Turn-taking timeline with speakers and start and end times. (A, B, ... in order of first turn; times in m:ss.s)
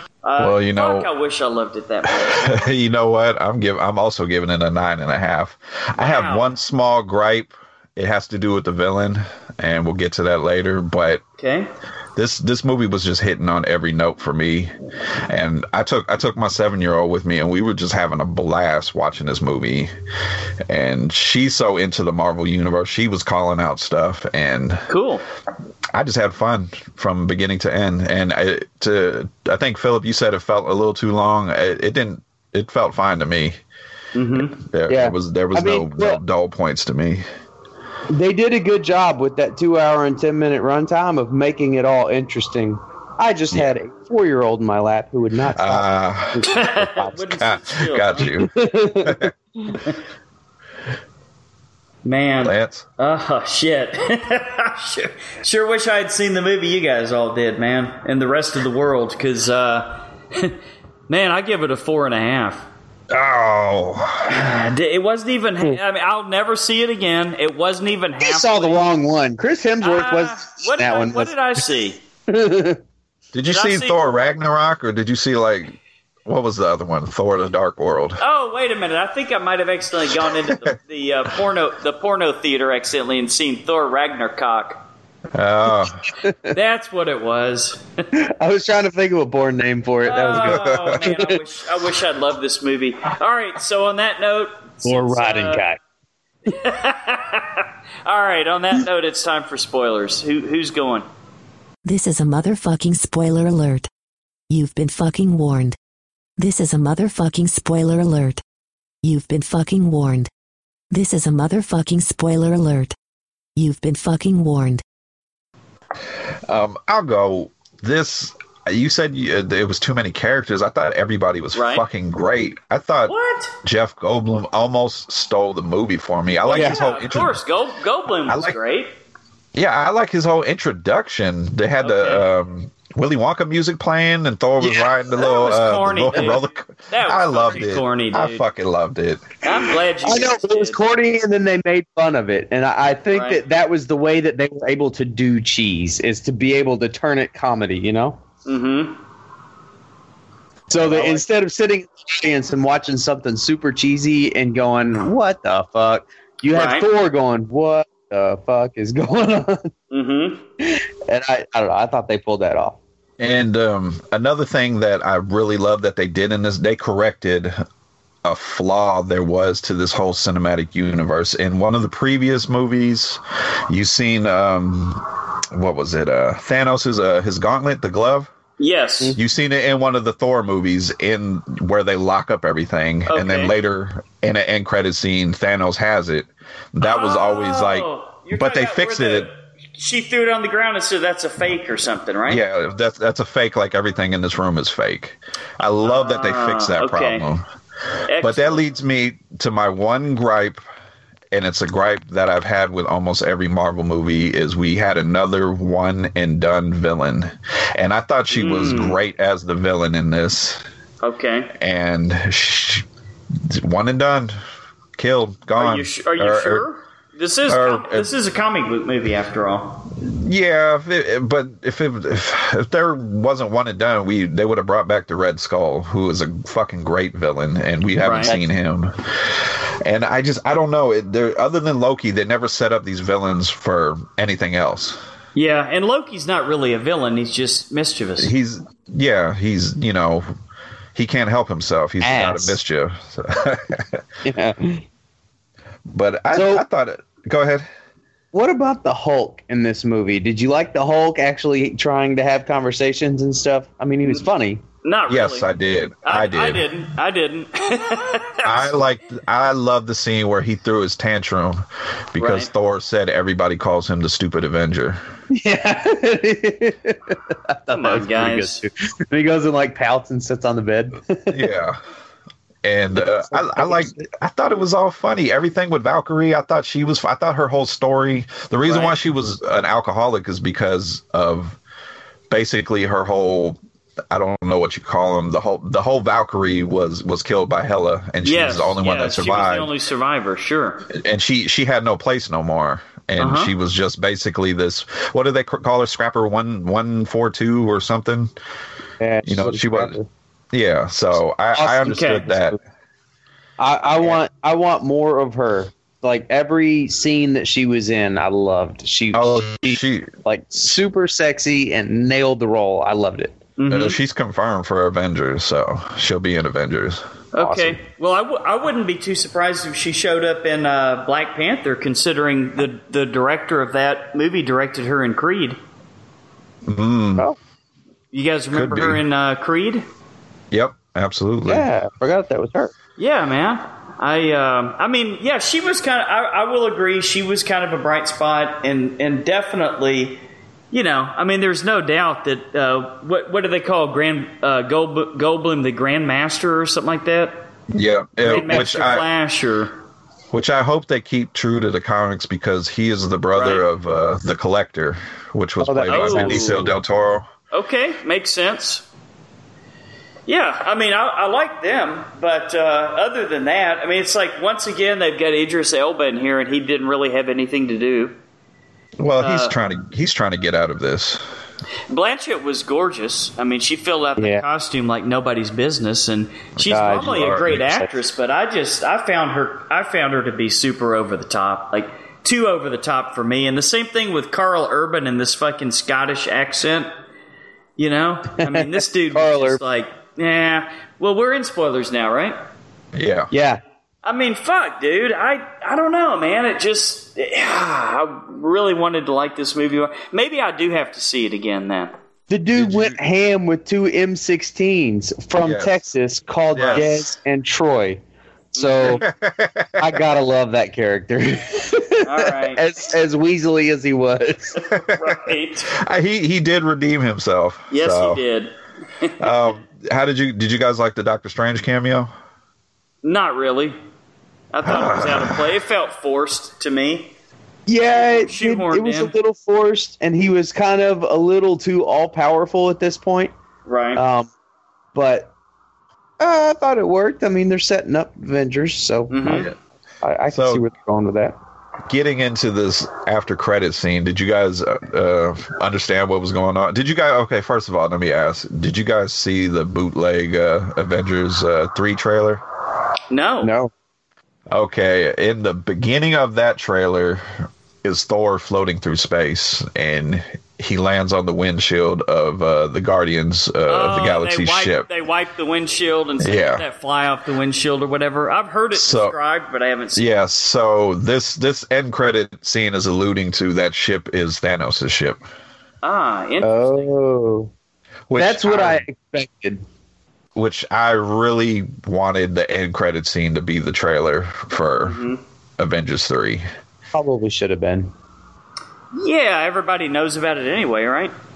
0:00.2-0:02.7 A
0:00.4-0:01.1 B
0:02.0-0:11.2 B
0:06.0-0:06.5 A
0:11.4-0:11.7 A
0:12.2-0:14.7 B
0:15.3-0:19.9 B
0:20.7-0:24.9 B
0:24.9-0:25.2 A
0:25.9-0:33.6 B
0:34.1-0:34.6 A
0:34.6-0:37.2 B
0:34.9-0:36.2 C
0:38.1-0:47.2 C
0:45.5-0:46.7 B
0:46.4-0:48.3 A
0:47.3-0:49.3 B
0:48.4-0:49.7 C
0:52.0-1:00.6 A
0:52.4-0:52.8 B
1:01.1-1:02.7 A
1:03.1-1:04.4 B
1:04.2-1:08.8 A
1:08.2-1:11.4 C
1:09.8-1:12.0 A
1:12.3-1:12.8 C
1:13.3-1:18.2 B
1:13.4-1:14.0 A
1:18.2-1:24.8 A
1:20.4-1:20.7 B
1:25.3-1:26.0 B
1:26.2-1:26.5 C
1:26.5-1:27.8 A
1:28.1-1:31.3 C
1:30.0-1:35.6 A
1:30.4-1:31.0 B
1:34.8-1:35.8 C
1:36.5-1:41.0 A
1:41.8-1:43.9 D
1:44.5-1:45.8 D
1:46.4-1:48.4 D
1:49.0-1:50.3 D
1:50.9-1:52.9 D
1:53.6-1:54.8 D
1:56.5-2:07.4 B
2:01.5-2:01.8 A
2:03.1-2:03.5 A
2:06.5-2:08.9 A
2:06.5-2:06.8 C
2:08.3-2:08.6 B
2:09.5-2:19.3 B
2:11.8-2:12.2 A
2:14.6-2:18.4 A
2:19.4-2:20.8 A
2:20.0-2:28.2 C
2:23.1-2:23.4 A
2:28.4-2:29.0 A
2:30.7-2:39.7 C
2:30.8-2:31.2 A
2:36.4-2:36.9 A
2:39.9-2:40.4 A
2:40.6-2:42.8 C
2:43.2-2:47.6 B
2:48.2-2:58.3 B
2:58.6-2:59.2 A
2:59.2-3:09.3 B
3:03.1-3:03.5 A
3:06.8-3:12.4 A
3:12.3-3:17.4 B
3:15.8-3:17.2 A
3:18.1-3:18.6 A
3:18.2-3:20.6 B
3:21.3-3:30.6 B
3:28.3-3:29.0 A
3:31.0-3:31.5 A
3:31.6-3:32.8 B
3:33.4-3:34.4 B
3:35.0-3:36.7 B
3:35.6-3:39.8 A
3:37.5-3:38.1 B
3:40.0-3:55.0 B
3:48.0-3:48.3 A
3:55.3-3:58.3 A
3:58.2-4:00.3 B
4:00.9-4:04.0 B
4:02.0-4:02.6 C
4:04.2-4:04.8 C
4:05.9-4:07.7 B
4:06.3-4:06.6 C
4:08.3-4:14.6 C
4:14.8-4:15.5 A
4:15.1-4:16.7 B
4:16.0-4:18.5 A
4:18.4-4:25.0 B
4:22.2-4:22.5 A
4:25.3-4:31.4 C
4:27.7-4:28.6 A
4:31.3-4:31.8 B
4:32.6-4:41.6 B
4:32.9-4:34.1 C
4:38.6-4:38.9 A
4:42.3-4:43.6 B
4:44.1-4:49.7 B
4:48.2-4:50.8 A
4:50.9-4:58.3 B
4:53.2-4:53.5 A
4:59.0-5:00.1 C
4:59.2-5:00.0 B
5:00.5-5:02.6 B
5:01.5-5:02.6 C
5:01.9-5:02.2 A
5:03.6-5:13.4 C
5:09.1-5:10.1 B
5:13.6-5:14.0 A
5:13.7-5:17.0 B
5:17.3-5:25.6 A
5:17.4-5:17.8 C
5:26.6-5:27.2 B
5:28.1-5:29.8 A
5:28.5-5:29.0 B
5:30.5-5:31.6 B
5:31.4-5:32.7 C
5:33.0-5:47.4 A
5:47.7-5:49.0 B
5:48.2-5:49.8 A
5:50.3-5:57.3 B
5:53.3-5:53.6 A
5:55.6-5:56.7 C
5:55.9-5:56.5 A
5:57.5-5:58.8 A
6:00.3-6:08.1 A
6:09.0-6:11.2 B
6:09.2-6:09.5 A
6:11.9-6:26.9 A
6:14.2-6:14.4 C
6:16.6-6:17.8 B
6:16.7-6:17.9 C
6:27.8-6:32.4 A
6:28.4-6:29.6 C
6:32.9-6:33.3 B
6:33.3-6:33.6 C
6:34.0-6:41.9 A
6:42.3-6:48.0 C
6:42.5-6:43.0 B
6:45.4-6:45.8 B
6:46.5-6:47.2 B
6:48.5-6:49.0 C
6:48.6-6:49.0 A
6:48.9-6:50.0 B
6:49.8-6:54.6 C
6:52.0-6:52.6 A
6:54.7-6:55.1 B
6:54.7-6:55.7 A
6:55.8-6:58.2 B
6:57.7-6:59.4 A
6:59.2-7:02.1 B
7:03.0-7:03.8 A
7:04.5-7:07.1 A
7:04.6-7:05.5 B
7:07.7-7:13.3 C
7:07.9-7:09.1 A
7:13.6-7:14.0 A
7:13.9-7:14.3 C
7:14.9-7:15.3 C
7:16.2-7:19.5 C
7:19.1-7:19.5 A
7:19.3-7:19.5 B
7:20.0-7:21.4 C
7:20.3-7:20.6 B
7:21.9-7:32.4 B
7:33.1-7:33.5 A
7:33.4-7:33.7 C
7:34.5-7:44.8 B
7:43.7-7:50.0 A
7:46.2-7:46.6 B
7:48.7-7:49.2 B
7:50.0-7:55.2 B
7:55.8-7:56.9 A
7:56.4-7:57.5 C
7:58.1-7:58.8 B
7:58.2-7:59.6 C
8:00.3-8:06.4 B
8:04.8-8:05.2 A
8:06.9-8:07.9 C
8:08.9-8:11.1 A